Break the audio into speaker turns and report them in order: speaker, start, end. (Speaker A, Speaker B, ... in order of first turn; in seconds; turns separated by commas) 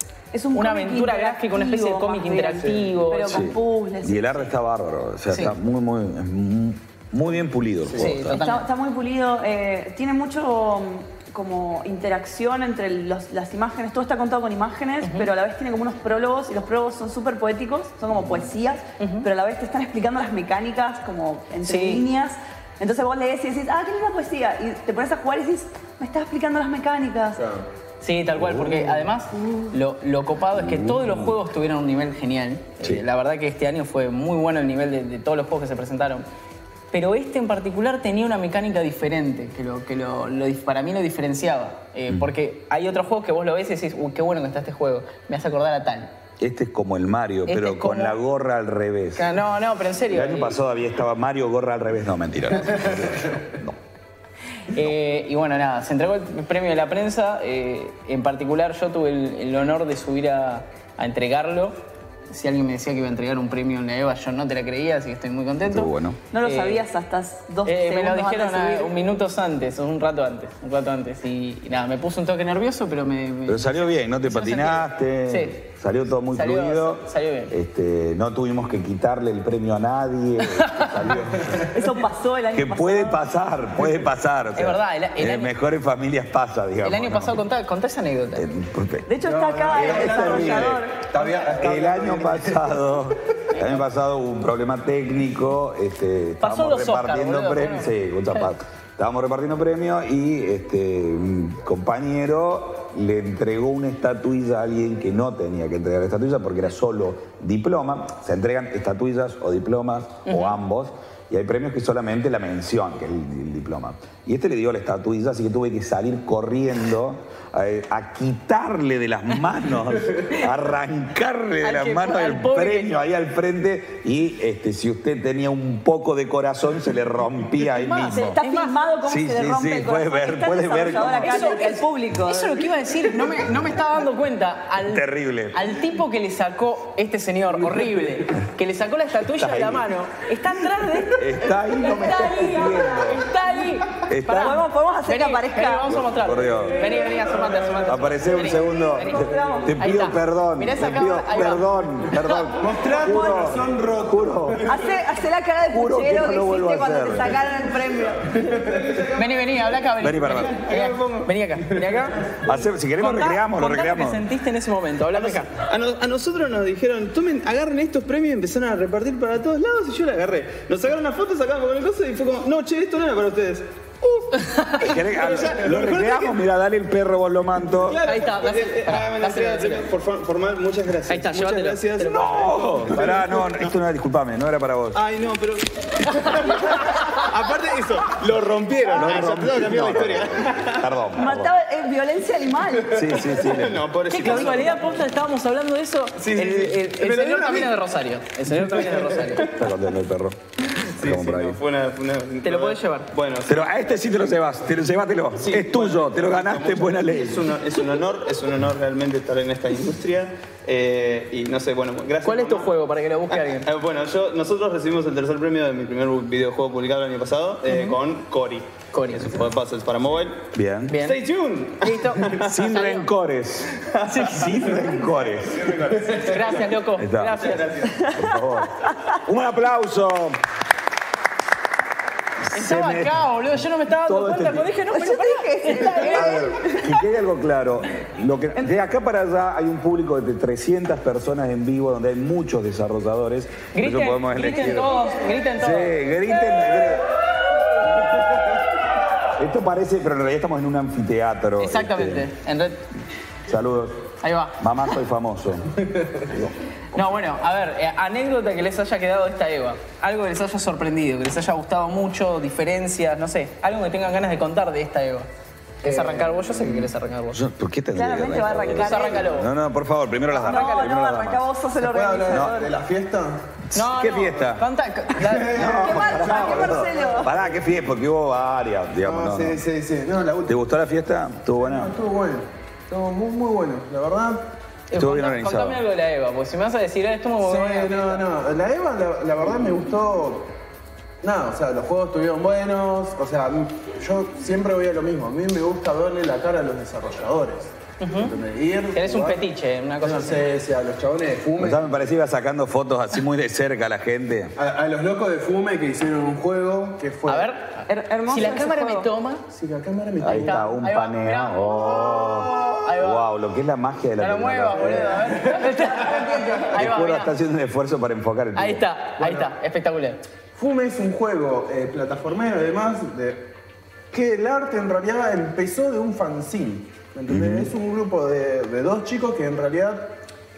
Speaker A: 0.3-4.5, Speaker B: 0.5-3.5, Speaker C: 3.3-8.4, Speaker B: 5.3-5.6, Speaker D: 7.8-8.1, Speaker B: 8.0-8.7, Speaker A: 8.3-27.4, Speaker B: 19.0-19.2, Speaker B: 21.7-22.1, Speaker D: 27.4-27.6, Speaker B: 28.0-36.2, Speaker C: 28.4-29.1, Speaker A: 29.3-29.7, Speaker C: 30.5-31.4, Speaker B: 36.9-46.1, Speaker C: 46.4-49.3, Speaker B: 47.5-48.2, Speaker B: 49.2-50.6, Speaker C: 50.1-53.8, Speaker B: 54.7-61.8, Speaker B: 62.3-65.9, Speaker C: 65.7-66.2, Speaker A: 66.3-68.9, Speaker B: 66.4-66.8, Speaker B: 67.7-75.6, Speaker C: 73.5-81.7, Speaker B: 76.3-77.5, Speaker B: 80.6-80.9, Speaker D: 81.4-81.7, Speaker A: 81.7-83.2, Speaker C: 82.5-87.4, Speaker B: 84.5-85.5, Speaker B: 86.8-88.5, Speaker C: 88.3-89.1, Speaker A: 89.1-91.0, Speaker D: 89.2-92.8, Speaker C: 89.7-128.4, Speaker B: 96.4-97.9, Speaker B: 110.3-110.6, Speaker B: 121.6-122.9, Speaker B: 127.7-128.8, Speaker A: 128.1-132.7, Speaker C: 129.1-131.6, Speaker B: 131.1-152.5, Speaker C: 134.8-135.7, Speaker C: 139.4-139.9, Speaker C: 141.1-143.3, Speaker A: 141.9-143.1, Speaker C: 144.1-144.6, Speaker A: 144.3-146.0, Speaker C: 145.9-146.9, Speaker D: 146.9-147.9, Speaker C: 147.8-154.8, Speaker A: 148.6-149.8, Speaker D: 152.6-154.8, Speaker A: 154.7-158.6, Speaker C: 155.7-157.5, Speaker D: 158.4-159.6, Speaker B: 159.2-162.3, Speaker C: 160.0-160.6, Speaker E: 160.7-161.3, Speaker C: 162.4-164.2, Speaker B: 163.0-165.6, Speaker E: 165.2-174.2, Speaker B: 174.4-174.8, Speaker C: 174.8-178.0, Speaker D: 175.2-176.3, Speaker D: 177.8-179.9, Speaker B: 178.0-179.9, Speaker E: 178.4-181.3, Speaker B: 181.1-182.5, Speaker D: 181.1-183.7, Speaker C: 182.0-185.0, Speaker D: 185.0-190.8, Speaker B: 186.5-187.0, Speaker E: 188.0-188.9, Speaker C: 188.9-191.6, Speaker A: 191.2-193.2, Speaker C: 192.9-193.8, Speaker D: 193.0-194.8, Speaker E: 193.8-194.8, Speaker B: 194.1-199.5, Speaker D: 196.2-197.7, Speaker C: 199.4-200.4, Speaker C: 200.9-201.6, Speaker D: 201.0-201.6, Speaker E: 201.0-203.6, Speaker B: 202.4-203.1, Speaker C: 203.4-207.5, Speaker D: 205.4-207.5, Speaker E: 205.6-212.7, Speaker B: 212.2-213.7, Speaker E: 213.7-220.4, Speaker B: 217.7-218.0, Speaker B: 218.9-219.4, Speaker C: 220.5-221.0, Speaker B: 220.9-221.2, Speaker E: 221.0-221.7, Speaker D: 221.2-222.5, Speaker B: 221.8-223.1, Speaker C: 222.4-225.8, Speaker B: 224.1-224.6, Speaker D: 225.3-226.6, Speaker B: 226.2-227.8, Speaker C: 227.0-227.5, Speaker D: 227.4-228.1, Speaker C: 228.0-230.4, Speaker C: 232.5-233.3, Speaker B: 232.5-236.5, Speaker C: 234.1-234.7, Speaker A: 234.9-237.0, Speaker C: 236.0-245.0, Speaker B: 243.7-246.1, Speaker C: 245.6-248.6, Speaker C: 249.3-252.3, Speaker B: 251.6-252.8, Speaker C: 253.5-255.7, Speaker B: 254.2-254.6, Speaker C: 256.3-256.5, Speaker B: 256.9-265.3, Speaker B: 265.8-267.4, Speaker D: 265.9-266.7, Speaker C: 267.3-271.5, Speaker A: 267.9-269.3, Speaker B: 268.6-269.5, Speaker A: 270.3-272.7, Speaker D: 271.8-273.4, Speaker C: 272.3-272.6, Speaker C: 273.7-274.7, Speaker B: 273.7-275.7, Speaker D: 275.2-277.3, Speaker C: 275.4-279.6, Speaker A: 275.7-277.3, Speaker D: 279.0-280.6, Speaker C: 280.5-281.9, Speaker D: 281.6-284.4, Speaker B: 284.9-288.2, Speaker C: 284.9-285.8, Speaker D: 287.4-290.5, Speaker D: 291.2-299.4, Speaker B: 298.0-298.3, Speaker B: 298.9-300.4, Speaker D: 300.0-302.0, Speaker C: 301.6-304.5, Speaker D: 304.6-307.5, Speaker B: 307.3-309.4, Speaker A: 307.9-309.1, Speaker D: 309.5-310.7, Speaker C: 310.2-315.4, Speaker B: 310.3-313.3, Speaker B: 314.2-317.3, Speaker D: 314.8-315.9, Speaker C: 316.7-318.8, Speaker B: 318.6-320.2, Speaker D: 319.2-319.5, Speaker D: 320.6-323.5, Speaker D: 324.1-330.1, Speaker C: 327.3-327.7